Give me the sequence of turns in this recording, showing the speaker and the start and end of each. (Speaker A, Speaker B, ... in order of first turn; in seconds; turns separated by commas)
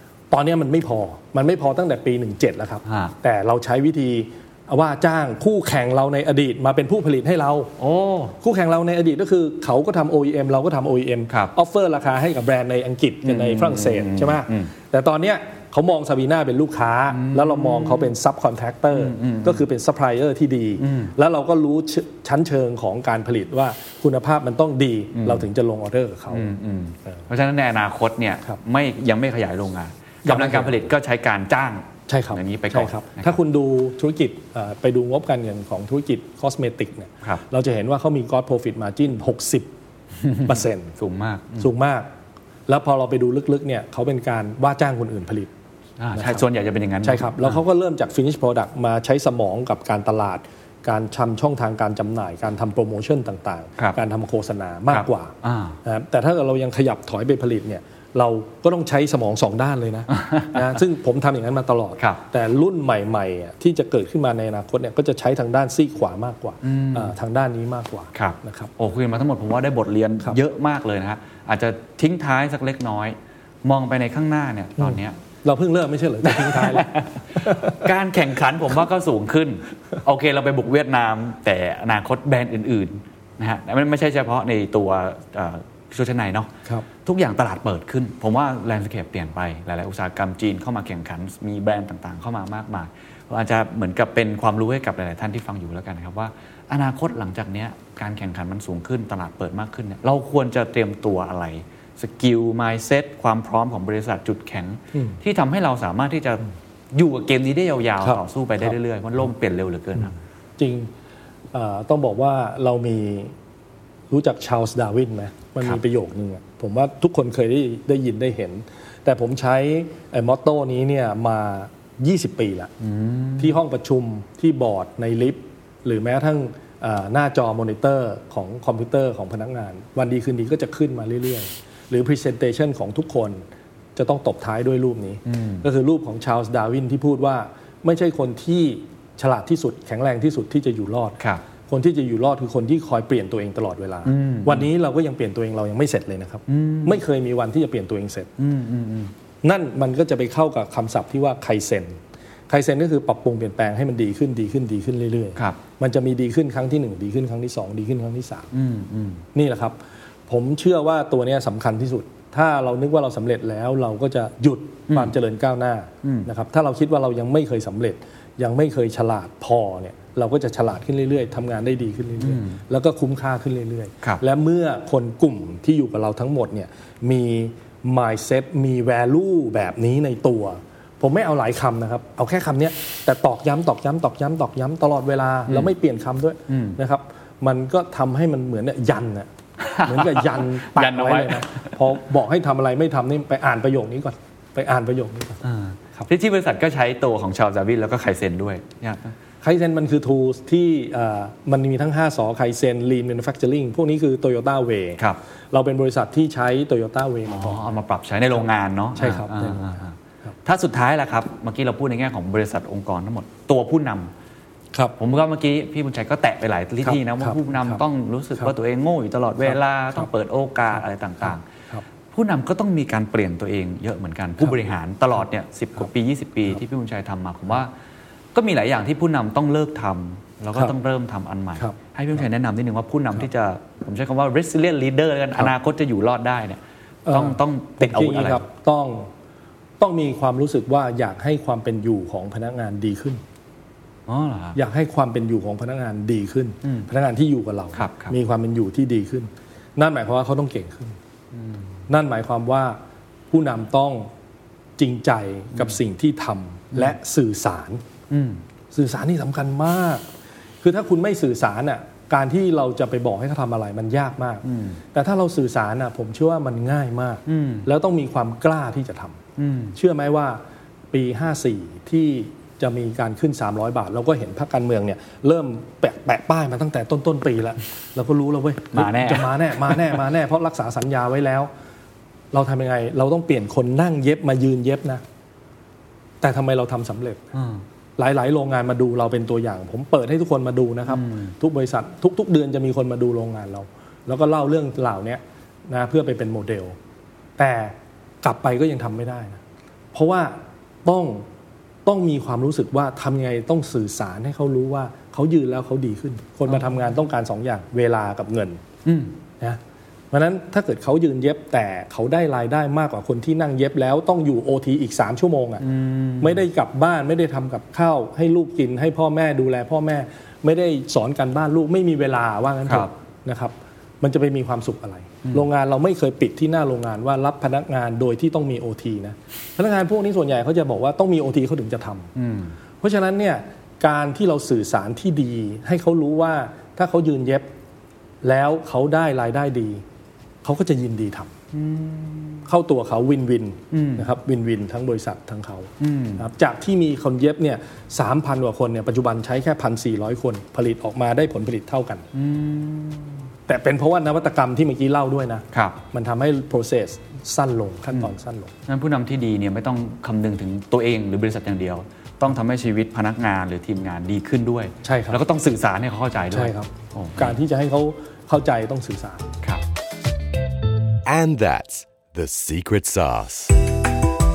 Speaker A: 0.3-26.5, Speaker B: 2.9-3.1, Speaker B: 7.8-8.3, Speaker B: 13.2-14.7, Speaker B: 17.1-18.1, Speaker B: 18.9-19.6, Speaker B: 20.8-21.1, Speaker B: 25.2-25.4, Speaker B: 26.3-33.4, Speaker A: 30.2-30.7, Speaker A: 32.1-39.7, Speaker B: 40.2-41.7, Speaker A: 40.4-41.0, Speaker A: 41.6-42.1, Speaker A: 42.7-45.5, Speaker B: 46.0-47.6, Speaker A: 46.1-46.4, Speaker A: 47.0-55.3, Speaker B: 54.9-55.8, Speaker A: 55.8-68.7, Speaker B: 60.2-60.8, Speaker B: 66.6-67.1, Speaker B: 68.1-75.2, Speaker A: 74.8-77.8, Speaker B: 76.2-86.5, Speaker B: 87.0-110.1, Speaker A: 110.6-110.9, Speaker A: 111.5-113.3, Speaker A: 114.1-122.7, Speaker B: 122.8-123.6, Speaker A: 123.4-133.4, Speaker A: 133.9-148.3, Speaker B: 135.2-135.6, Speaker B: 144.0-144.7, Speaker B: 146.5-147.0, Speaker B: 148.4-149.1, Speaker A: 149.4-158.5, Speaker B: 158.5-159.2, Speaker A: 159.3-159.8, Speaker A: 160.3-195.4, Speaker B: 172.2-172.6, Speaker B: 185.5-185.7, Speaker B: 186.5-186.8, Speaker B: 189.6-191.8, Speaker B: 195.4-199.1, Speaker A: 199.4-205.0, Speaker A: 205.5-207.7, Speaker B: 207.3-214.1, Speaker A: 208.9-210.3, Speaker B: 215.0-221.4, Speaker A: 216.8-217.8, Speaker A: 219.5-220.0, Speaker B: 222.1-227.7, Speaker B: 228.3-238.4, Speaker A: 237.1-239.1, Speaker A: 239.8-243.2, Speaker B: 244.1-244.6, Speaker A: 244.5-251.0, Speaker B: 247.7-248.1, Speaker B: 251.3-251.6, Speaker A: 251.9-252.8, Speaker A: 253.3-254.1, Speaker A: 254.8-257.8, Speaker B: 258.1-258.4, Speaker A: 258.7-260.0, Speaker A: 260.6-269.2, Speaker B: 264.4-264.8, Speaker B: 267.2-267.7, Speaker B: 269.4-269.8, Speaker A: 269.7-270.4, Speaker A: 270.9-281.5, Speaker B: 278.7-279.9, Speaker A: 282.3-285.0, Speaker A: 286.2-287.2, Speaker B: 287.3-287.6, Speaker A: 288.0-296.8, Speaker B: 290.9-291.3, Speaker A: 297.4-299.4, Speaker A: 299.9-301.2, Speaker A: 301.9-308.6, Speaker B: 308.8-309.1, Speaker A: 310.1-315.6, Speaker B: 315.6-316.4, Speaker A: 316.2-332.1, Speaker B: 332.1-332.5, Speaker A: 332.8-337.5, Speaker A: 338.2-339.8, Speaker A: 340.4-341.3, Speaker B: 341.5-342.5, Speaker A: 342.4-352.1, Speaker B: 343.7-344.0, Speaker B: 345.8-346.2, Speaker B: 352.1-353.3, Speaker A: 353.5-358.5, Speaker B: 355.5-355.8, Speaker B: 358.7-367.4, Speaker A: 364.8-365.2, Speaker A: 366.3-369.3, Speaker C: 371.0-373.6